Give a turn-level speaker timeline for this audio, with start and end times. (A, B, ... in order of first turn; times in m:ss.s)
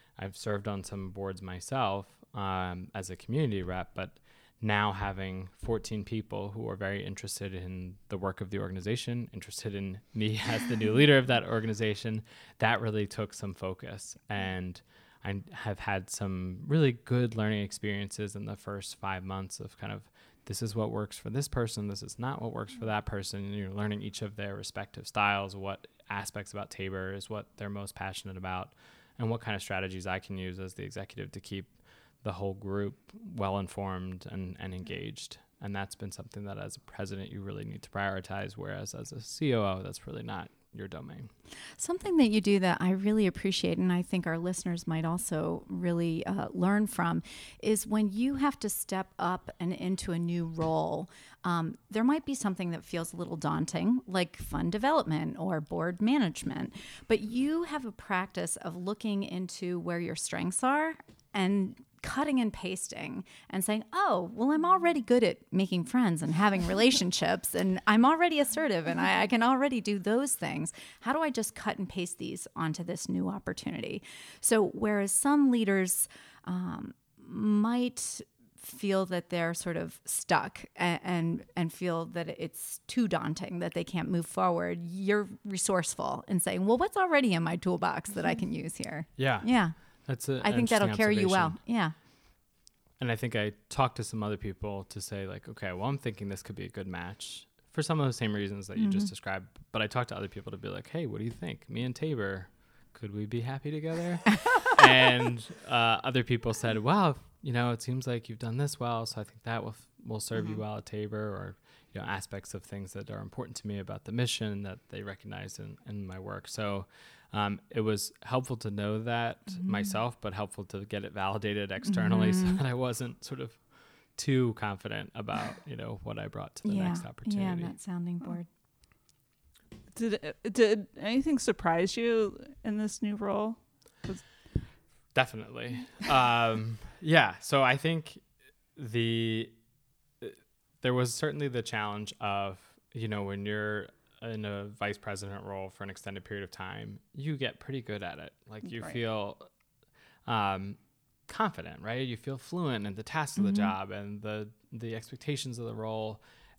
0:00.2-0:41.3 A
0:41.8-1:32.0 B
1:29.2-1:31.6 A
1:33.0-2:07.8 A
1:38.8-1:39.1 B
2:01.9-2:02.6 B
2:06.6-2:08.5 B
2:09.9-2:14.3 C
2:15.1-2:19.6 A
2:20.2-2:29.4 A
2:28.6-2:29.0 C
2:30.2-2:36.2 A
2:33.4-2:33.7 B